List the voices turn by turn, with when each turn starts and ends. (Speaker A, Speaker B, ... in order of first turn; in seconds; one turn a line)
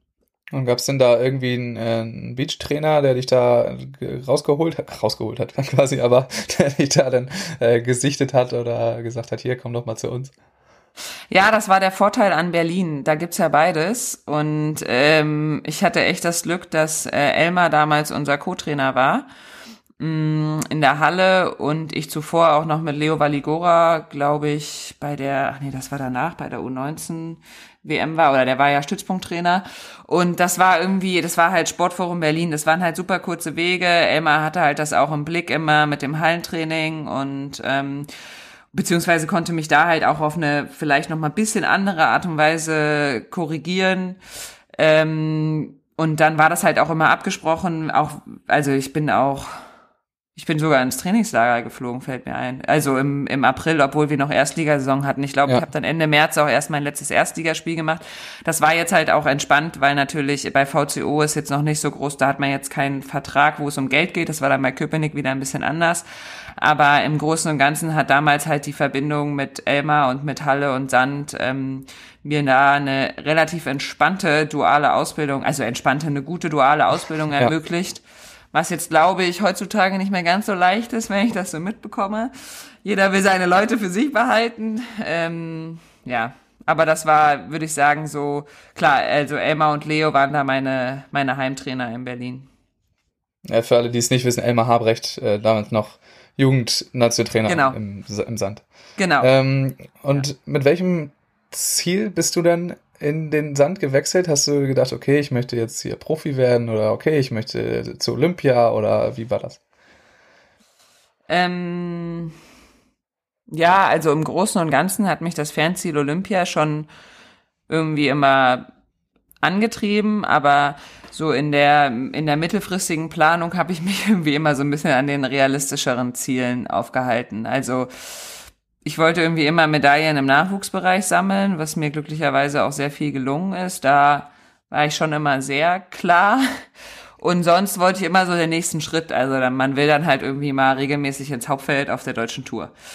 Speaker A: 0.5-10.3
Speaker B: 11.3-19.3
Speaker B: 20.0-38.1
Speaker B: 38.7-44.2
Speaker B: 44.7-49.6
Speaker B: 50.4-66.0
Speaker B: 66.6-92.5
Speaker A: 93.5-98.6
Speaker B: 97.5-97.8
Speaker B: 99.0-99.3
Speaker A: 99.2-109.6
Speaker B: 111.3-112.3
Speaker B: 113.5-116.9
Speaker B: 117.7-118.7
Speaker B: 119.4-136.6
Speaker B: 137.2-142.7